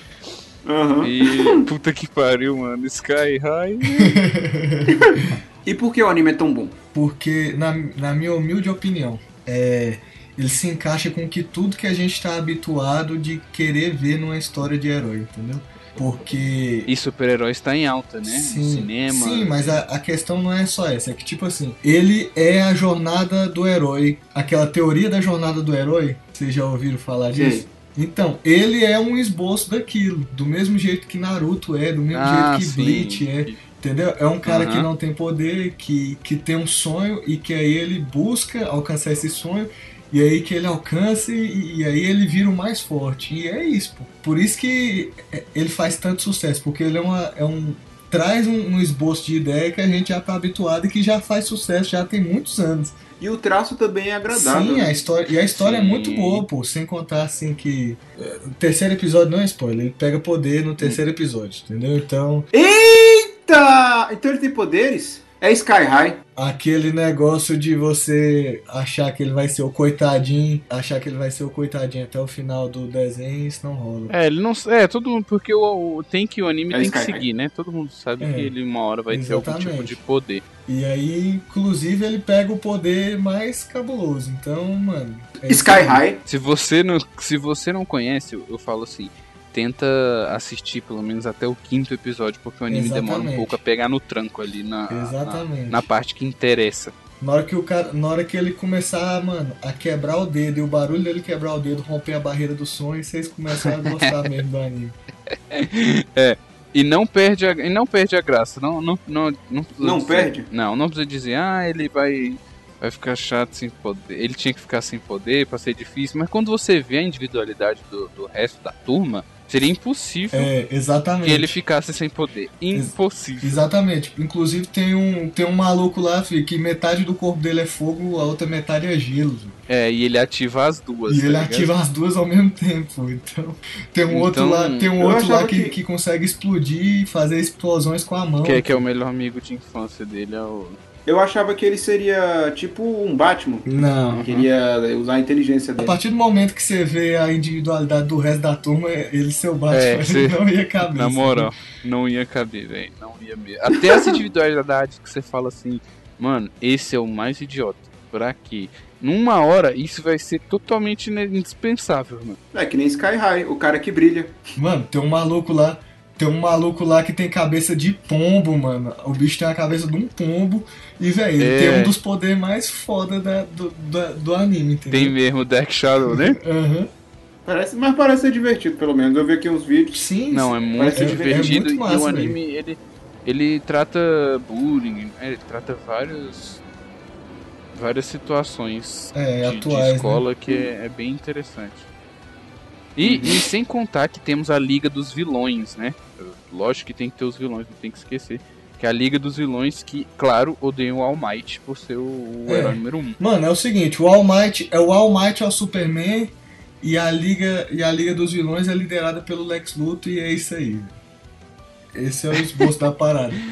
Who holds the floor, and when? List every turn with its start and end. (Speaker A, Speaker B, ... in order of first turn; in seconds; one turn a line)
Speaker A: 0.7-1.6
Speaker B: 1.0-4.2
Speaker C: 4.0-5.0
Speaker A: 4.9-6.8
Speaker C: 6.9-16.9
Speaker B: 16.9-19.8
Speaker C: 18.2-53.0
Speaker A: 27.3-27.7
Speaker B: 32.1-33.6
Speaker B: 34.5-34.9
Speaker A: 53.2-55.0
Speaker C: 54.3-62.5
Speaker B: 55.5-56.5
Speaker A: 62.5-66.2
Speaker C: 66.4-74.1
Speaker B: 74.1-80.4
Speaker A: 76.7-77.2
Speaker C: 78.2-78.5
Speaker C: 79.1-80.0
Speaker C: 80.7-86.0
Speaker A: 85.5-86.2
Speaker B: 86.2-97.0
Speaker C: 92.7-93.6
Speaker C: 94.9-95.9
Speaker C: 97.2-105.0
Speaker B: 103.6-104.3
Speaker B: 105.3-120.5
Speaker A: 109.8-110.5
Speaker C: 120.3-121.6
Speaker B: 121.2-123.6
Speaker C: 122.7-129.6
Speaker B: 129.7-131.7
Speaker C: 131.1-138.8
Speaker B: 134.1-134.9
Speaker A: 135.0-135.8
Speaker B: 138.4-140.8
Speaker A: 141.1-143.7
Speaker C: 143.7-144.2
Speaker B: 144.1-144.5
Speaker A: 144.2-146.0
Speaker C: 145.8-151.5
Speaker B: 149.7-162.4
Speaker A: 162.5-164.4
Speaker C: 164.6-175.2
Speaker B: 171.4-171.9
Speaker B: 174.9-176.4
Speaker C: 176.1-176.9
Speaker A: 177.5-180.1
Speaker C: 179.9-182.4
Speaker B: 180.3-186.6
Speaker A: 180.8-181.6
Speaker B: 187.7-191.9
Speaker C: 189.1-190.2
Speaker B: 193.0-203.2
Speaker A: 193.1-193.3
Speaker C: 202.5-211.0
Speaker C: 211.9-213.4